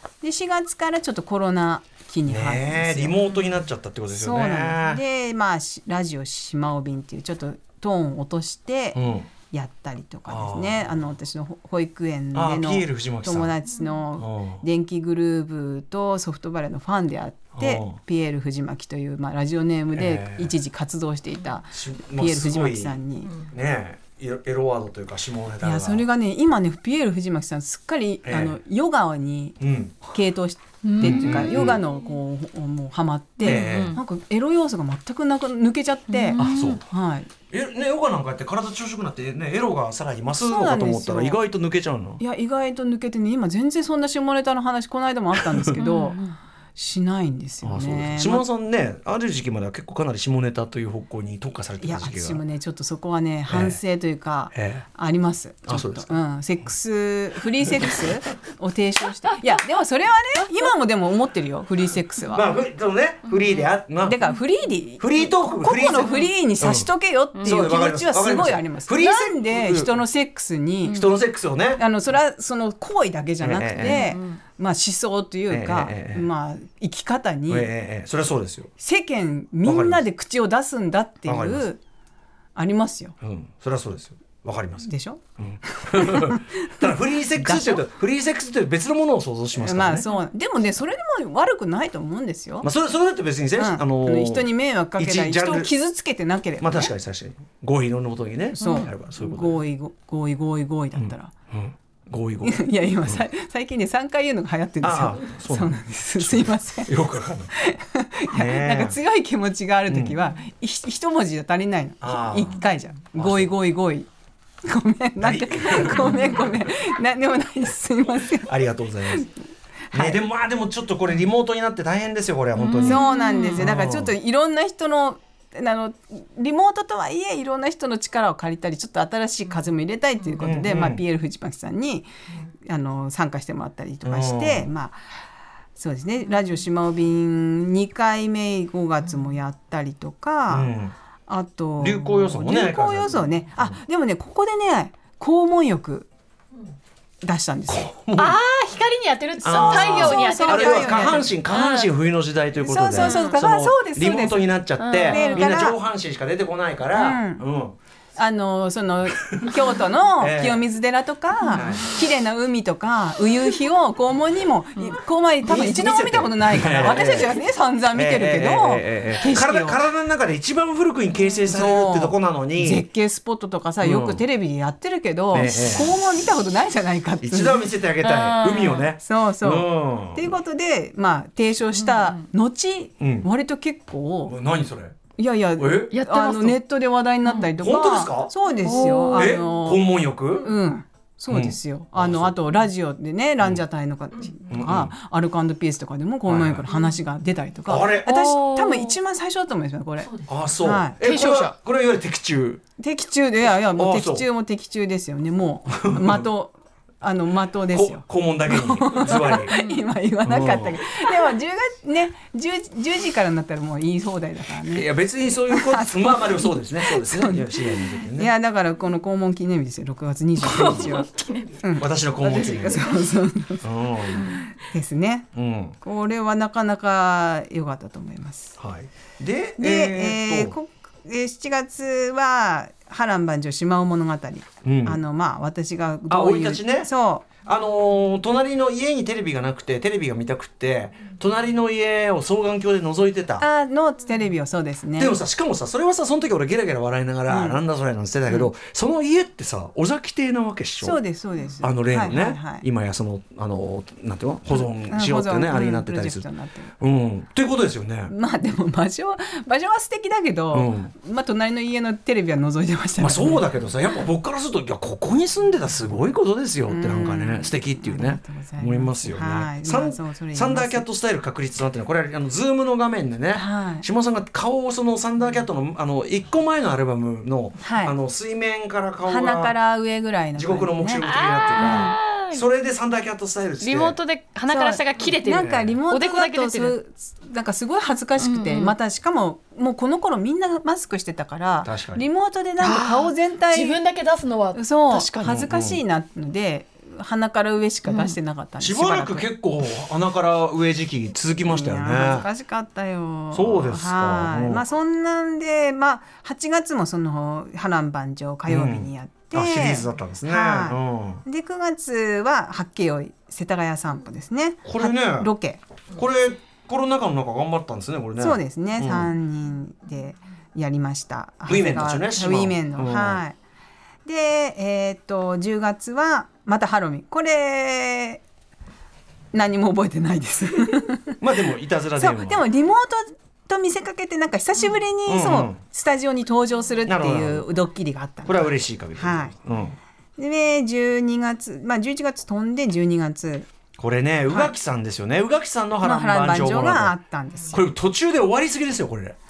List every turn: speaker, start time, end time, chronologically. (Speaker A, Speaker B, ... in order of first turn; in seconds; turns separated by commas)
Speaker A: 0.2-3.1, Speaker B: 2.3-5.0, Speaker A: 4.1-9.0, Speaker B: 8.9-9.3, Speaker A: 9.5-23.4, Speaker B: 10.3-11.1, Speaker B: 12.3-13.5, Speaker B: 14.2-14.6, Speaker B: 17.6-18.0, Speaker B: 19.9-20.5, Speaker B: 21.7-26.1, Speaker A: 25.6-37.3, Speaker B: 28.2-28.6, Speaker B: 29.6-30.1, Speaker C: 30.8-31.8, Speaker B: 31.0-31.8, Speaker C: 33.4-34.0, Speaker B: 33.4-34.0, Speaker C: 36.1-36.8, Speaker B: 36.4-36.8, Speaker B: 37.5-42.2, Speaker A: 40.4-41.4, Speaker A: 42.2-46.2, Speaker B: 45.4-45.8, Speaker C: 45.8-46.4, Speaker A: 46.8-48.5, Speaker B: 47.6-52.4, Speaker A: 51.8-62.5, Speaker B: 53.5-53.8, Speaker B: 54.5-54.9, Speaker B: 55.7-56.1, Speaker B: 57.7-58.0, Speaker B: 62.3-64.2, Speaker A: 64.0-71.0, Speaker B: 65.0-66.9, Speaker B: 67.4-70.0, Speaker B: 70.9-71.8, Speaker A: 71.8-77.7, Speaker B: 73.4-74.1, Speaker C: 73.8-74.4, Speaker B: 75.5-76.3, Speaker B: 77.5-78.7, Speaker A: 78.8-81.8, Speaker B: 79.7-80.0, Speaker B: 81.3-81.7, Speaker A: 82.6-83.2, Speaker B: 83.2-90.1, Speaker A: 84.8-87.8, Speaker A: 89.5-92.7, Speaker B: 92.6-95.7, Speaker A: 93.6-96.9, Speaker B: 96.6-99.6, Speaker A: 98.6-101.3, Speaker C: 98.6-98.9, Speaker B: 101.0-103.2, Speaker A: 102.4-107.0, Speaker B: 104.8-107.5, Speaker A: 107.5-114.1, Speaker B: 108.3-109.0, Speaker B: 109.9-110.2, Speaker B: 112.0-112.6, Speaker B: 113.2-113.5, Speaker A: 114.6-118.5, Speaker B: 115.2-116.7, Speaker B: 118.3-119.3, Speaker A: 119.9-120.2, Speaker B: 119.9-124.1, Speaker C: 122.6-123.6, Speaker A: 122.8-135.1, Speaker B: 130.4-131.0, Speaker B: 134.1-134.7, Speaker A: 135.8-140.7, Speaker B: 140.5-140.9, Speaker A: 141.3-146.1, Speaker B: 141.8-143.8, Speaker A: 147.2-147.9, Speaker B: 147.7-148.4, Speaker C: 148.2-151.9, Speaker B: 149.4-157.8, Speaker A: 149.5-151.3, Speaker A: 152.6-154.5, Speaker C: 153.0-153.4, Speaker C: 154.8-155.5, Speaker A: 155.1-155.8, Speaker A: 156.9-157.4, Speaker A: 158.2-169.8, Speaker B: 159.3-159.6, Speaker B: 160.2-160.7, Speaker C: 161.4-161.8, Speaker B: 161.5-162.0, Speaker B: 165.4-167.4, Speaker B: 167.9-172.8, Speaker A: 171.5-177.7, Speaker B: 173.8-174.2, Speaker B: 175.3-176.0, Speaker B: 177.2-180.4, Speaker C: 178.0-178.9, Speaker A: 179.0-184.4, Speaker C: 181.9-182.2, Speaker B: 183.0-183.3, Speaker B: 184.3-185.0, Speaker A: 185.2-189.9, Speaker B: 185.6-185.9, Speaker C: 185.9-186.6, Speaker B: 187.6-188.3, Speaker C: 188.6-189.4, Speaker B: 189.1-190.5, Speaker A: 190.4-201.5, Speaker B: 191.3-192.3, Speaker B: 194.5-194.9, Speaker B: 196.3-196.7, Speaker B: 197.7-198.2, Speaker C: 198.1-199.0, Speaker B: 200.3-202.6, Speaker A: 202.8-214.9, Speaker B: 203.8-204.3, Speaker B: 205.7-206.2, Speaker B: 207.7-209.5, Speaker C: 209.5-209.8, Speaker B: 210.3-210.8, Speaker B: 214.7-218.3, Speaker A: 215.5-221.1, Speaker C: 220.4-221.6, Speaker B: 220.5-221.0, Speaker A: 221.6-225.3, Speaker B: 221.8-222.9, Speaker B: 223.6-224.3, Speaker C: 224.2-224.5, Speaker B: 225.3-225.8, Speaker A: 225.8-228.6, Speaker B: 228.6-230.6, Speaker A: 229.6-237.3, Speaker B: 234.6-235.0, Speaker B: 236.1-236.9, Speaker B: 237.4-243.5, Speaker A: 243.4-245.2, Speaker B: 245.0-251.0, Speaker A: 247.3-247.6, Speaker A: 250.8-252.7, Speaker B: 251.6-256.3, Speaker A: 254.5-256.7, Speaker B: 256.8-258.1, Speaker A: 258.1-263.5, Speaker B: 260.5-260.9, Speaker B: 263.0-279.6, Speaker A: 266.7-270.9, Speaker A: 273.3-273.9, Speaker A: 277.6-277.9, Speaker A: 279.1-281.9, Speaker B: 280.4-284.0, Speaker C: 281.0-282.4, Speaker C: 283.6-286.8, Speaker A: 284.5-293.8, Speaker B: 285.4-285.7, Speaker C: 288.2-288.7, Speaker B: 291.6-292.0, Speaker C: 292.6-295.3, Speaker A: 294.6-299.3, Speaker B: 295.2-295.8, Speaker C: 297.9-298.2, Speaker B: 298.6-302.3, Speaker A: 301.4-315.6, Speaker B: 303.3-304.6, Speaker B: 308.5-311.2, Speaker B: 314.6-315.3, Speaker B: 315.9-319.1, Speaker A: 318.2-323.4, Speaker B: 321.5-323.2, Speaker A: 324.1-328.2, Speaker A: 329.3-331.2, Speaker B: 331.2-332.4, Speaker A: 332.0-339.4, Speaker B: 335.1-335.6, Speaker B: 336.9-337.5, Speaker B: 338.2-339.8, Speaker A: 340.2-343.5, Speaker B: 343.8-346.9, Speaker A: 345.8-347.6, Speaker B: 347.5-349.2